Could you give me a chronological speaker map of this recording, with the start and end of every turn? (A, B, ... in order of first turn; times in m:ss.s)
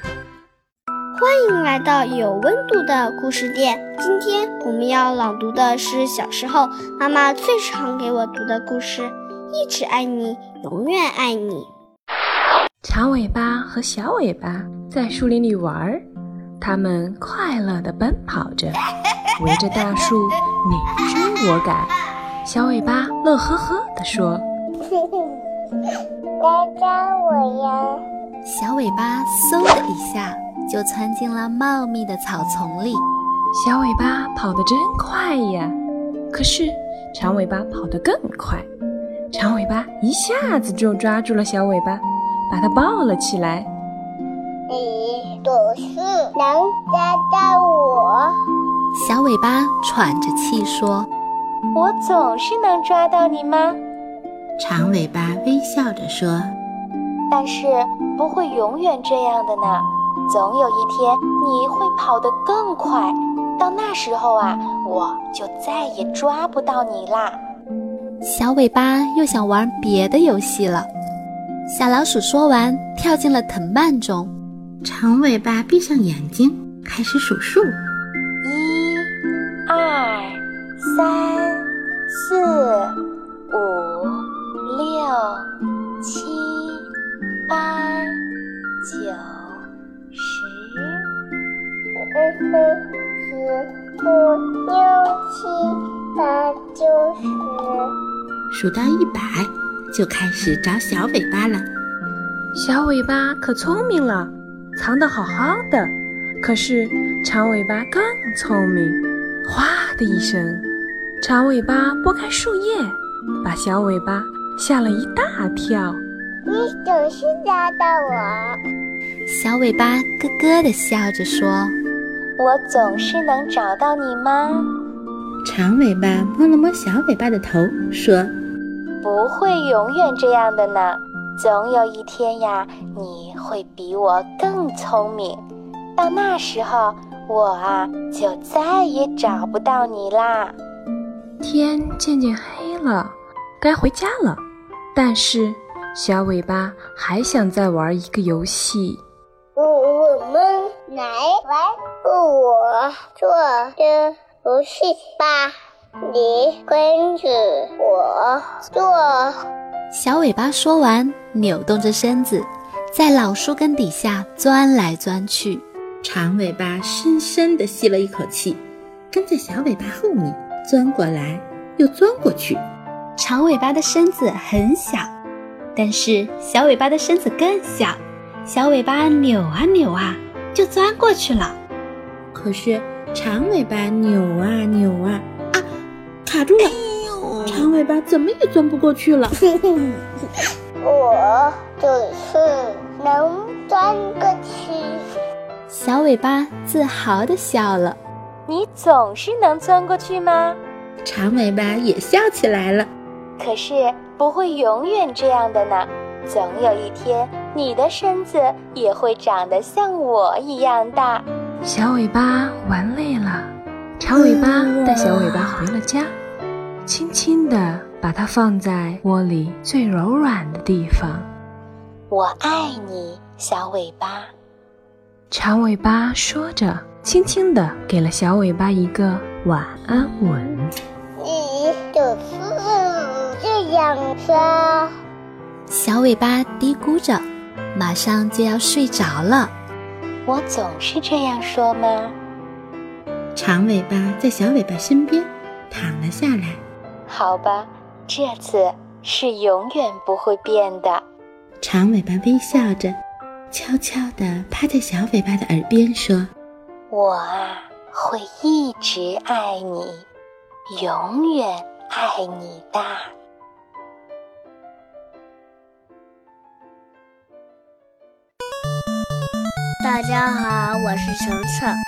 0:01.1-0:11.7 A
0:12.8-0:16.0 B
0:16.6-0:18.8 B
0:19.4-0:24.4 B
0:24.9-0:25.3 C
0:26.4-0:28.0 C
0:28.4-0:33.0 D
0:33.5-0:35.8 B
0:36.3-0:38.7 B
0:39.3-0:43.7 B
0:44.7-0:48.3 C
0:49.0-0:51.1 D
0:51.7-0:53.8 E
0:54.6-0:56.5 F
0:57.3-1:07.4 E
1:08.2-1:10.9 D
1:11.7-1:14.3 D
1:14.8-1:17.8 F
1:18.4-1:19.1 E
1:19.7-1:22.9 E
1:23.5-1:25.4 E
1:26.0-1:26.8 E
1:27.5-1:28.1 E
1:28.8-1:29.6 E
1:30.1-1:31.0 E
1:32.1-1:37.8 C
1:38.5-1:41.7 F
1:42.6-1:50.7 B
1:51.2-1:56.0 B
1:56.5-1:58.6 C
1:59.3-2:01.7 D
2:02.4-2:04.6 E
2:05.4-2:08.3 F
2:09.0-2:15.4 E
2:16.0-2:20.5 E
2:21.4-2:24.4 B
2:24.9-2:29.0 B
2:29.6-2:35.5 C
2:36.0-2:39.3 C
2:39.9-2:45.6 D
2:46.0-2:52.6 F
2:53.2-2:55.1 D
2:55.8-3:01.6 D
3:02.3-3:05.6 F
3:06.2-3:06.8 F
3:07.5-3:09.4 F
3:10.8-3:15.0 C
3:15.7-3:18.0 D
3:18.5-3:20.6 E
3:21.0-3:22.9 F
3:23.4-3:31.2 E
3:31.6-3:36.2 B
3:36.8-3:41.3 B
3:42.1-3:44.3 E
3:45.3-3:50.8 B
3:51.2-3:54.9 C
3:55.7-3:59.5 D
4:00.3-4:02.2 E
4:03.4-4:06.6 F
4:07.1-4:11.0 E
4:11.6-4:13.0 F
4:13.5-4:16.3 F
4:16.9-4:20.0 E
4:20.7-4:23.1 E
4:29.8-4:31.8 G